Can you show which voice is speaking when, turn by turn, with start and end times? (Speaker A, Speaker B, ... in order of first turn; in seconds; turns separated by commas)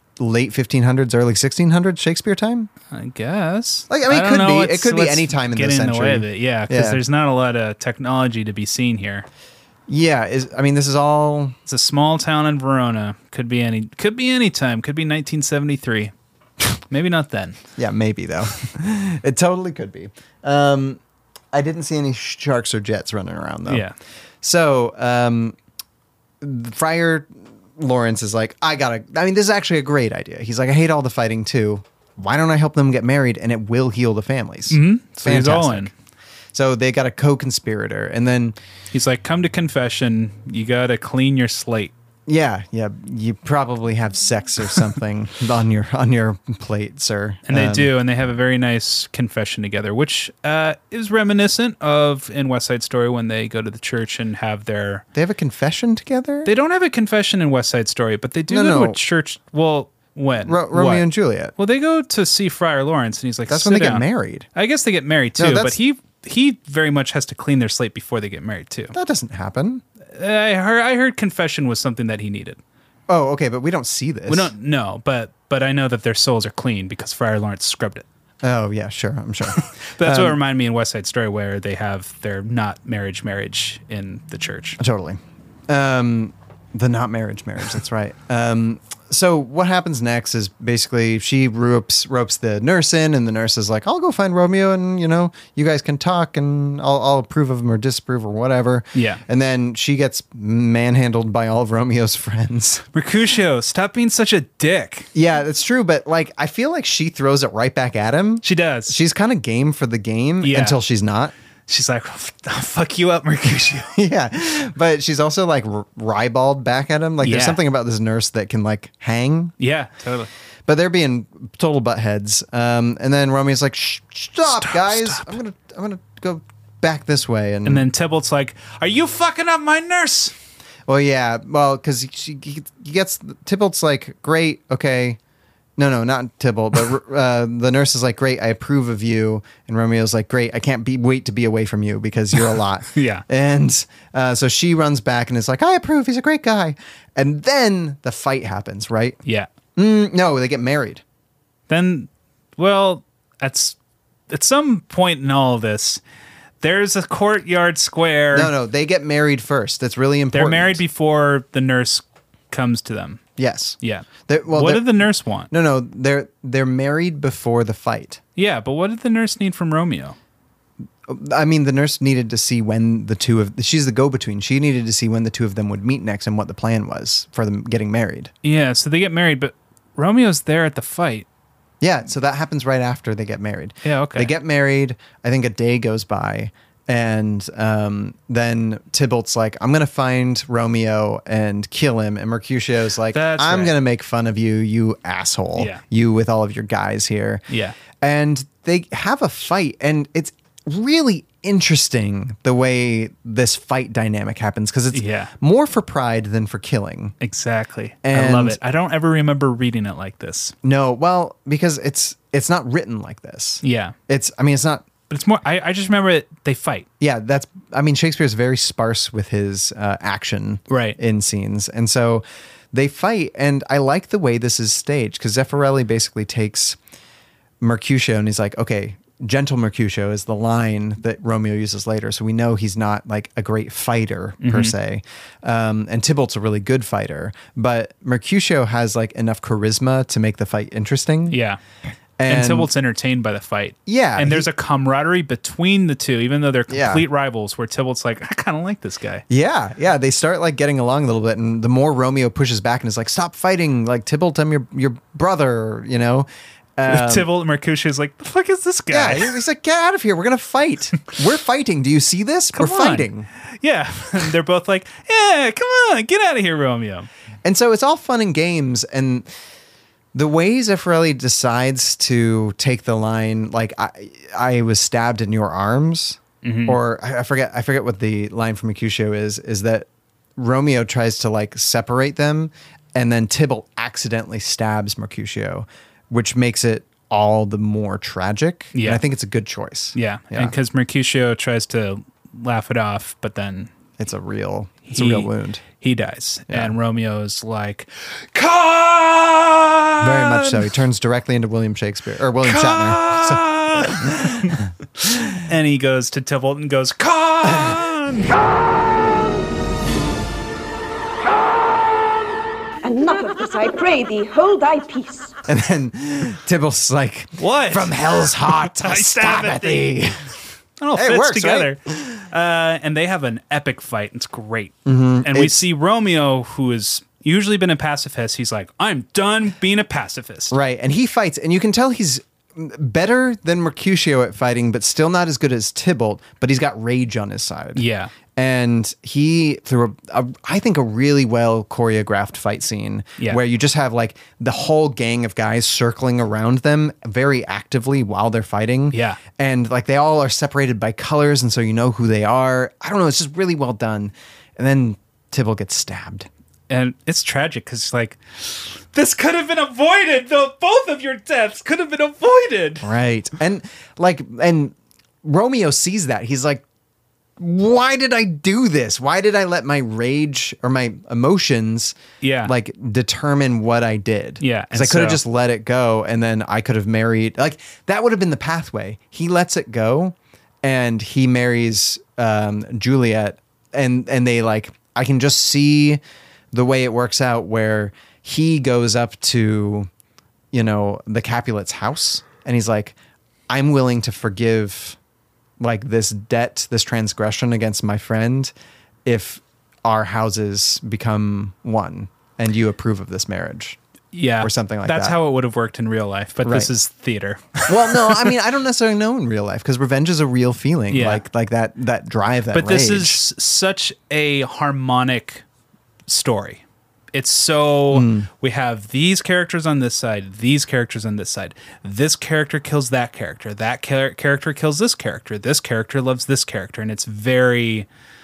Speaker A: 0.2-2.7, Speaker B: 2.9-9.3, Speaker A: 3.9-7.0, Speaker A: 9.9-11.6, Speaker B: 11.7-16.1, Speaker B: 16.9-17.6, Speaker A: 17.8-21.0, Speaker A: 21.5-23.9, Speaker B: 23.7-23.9, Speaker A: 24.4-25.6, Speaker A: 26.4-35.9, Speaker B: 34.7-35.9, Speaker A: 36.5-38.6, Speaker B: 38.9-41.9, Speaker A: 42.3-47.9, Speaker B: 47.5-55.0, Speaker A: 55.1-56.5, Speaker B: 56.5-68.9, Speaker A: 58.5-59.0, Speaker A: 60.5-61.5, Speaker A: 63.5-64.5, Speaker A: 65.4-65.8, Speaker A: 68.9-69.8, Speaker B: 70.2-72.6, Speaker A: 73.1-74.5, Speaker B: 74.3-78.1, Speaker A: 78.4-80.4, Speaker B: 79.8-84.8, Speaker A: 84.8-102.8, Speaker B: 99.0-99.2, Speaker B: 102.9-105.1, Speaker A: 105.1-111.3, Speaker B: 108.4-109.0, Speaker B: 110.4-110.8, Speaker B: 111.7-113.9, Speaker A: 114.0-119.5, Speaker B: 117.2-117.6, Speaker B: 119.6-120.3, Speaker A: 120.7-127.9, Speaker B: 124.6-125.4, Speaker B: 127.7-130.3, Speaker A: 130.9-135.2, Speaker A: 135.8-149.2, Speaker B: 142.9-143.2, Speaker A: 149.8-151.0, Speaker B: 151.7-153.8, Speaker B: 154.3-156.0, Speaker B: 156.6-158.5, Speaker A: 158.3-160.8, Speaker B: 160.3-163.2, Speaker A: 163.4-168.2, Speaker B: 163.8-165.5, Speaker B: 168.4-170.2, Speaker A: 171.1-178.3, Speaker B: 178.4-181.3, Speaker A: 181.8-207.1, Speaker B: 183.8-184.3, Speaker B: 193.1-193.8, Speaker B: 195.6-195.8, Speaker B: 197.5-197.8, Speaker B: 204.9-205.3, Speaker B: 207.2-210.6, Speaker A: 208.0-208.6, Speaker A: 210.6-214.9, Speaker B: 213.6-213.9, Speaker B: 215.1-216.9, Speaker A: 217.0-226.8, Speaker B: 220.7-221.0, Speaker A: 227.6-241.4, Speaker B: 234.4-234.7, Speaker B: 241.3-241.6, Speaker A: 242.2-242.7, Speaker B: 242.3-249.2, Speaker A: 243.9-244.5, Speaker A: 246.7-247.1, Speaker A: 249.3-257.3, Speaker B: 256.9-259.4, Speaker A: 258.9-263.3, Speaker B: 262.5-267.1, Speaker A: 267.4-269.3, Speaker A: 270.1-290.6, Speaker B: 276.4-276.8, Speaker B: 288.7-289.0, Speaker B: 289.9-293.7, Speaker A: 294.0-295.6, Speaker B: 294.9-300.7, Speaker A: 296.5-296.8, Speaker A: 300.0-305.3, Speaker B: 302.4-304.6, Speaker B: 305.3-308.4, Speaker C: 312.8-315.3, Speaker A: 315.5-320.3, Speaker B: 317.4-320.0, Speaker B: 320.8-330.5, Speaker A: 320.9-322.2, Speaker A: 324.9-325.6, Speaker A: 330.5-356.3, Speaker B: 337.8-338.1, Speaker B: 348.9-349.2, Speaker B: 356.7-362.9, Speaker A: 362.8-366.6, Speaker A: 367.4-386.0, Speaker B: 372.2-372.5, Speaker B: 374.4-375.2, Speaker A: 386.5-389.9, Speaker A: 390.5-393.0, Speaker A: 393.5-395.0, Speaker A: 395.6-398.5, Speaker A: 399.1-403.8, Speaker B: 404.1-408.3, Speaker A: 404.4-405.2, Speaker A: 406.4-406.7, Speaker A: 407.7-413.2, Speaker B: 410.9-411.2, Speaker B: 412.5-415.4, Speaker B: 416.1-416.6, Speaker B: 417.1-427.9, Speaker A: 417.9-418.3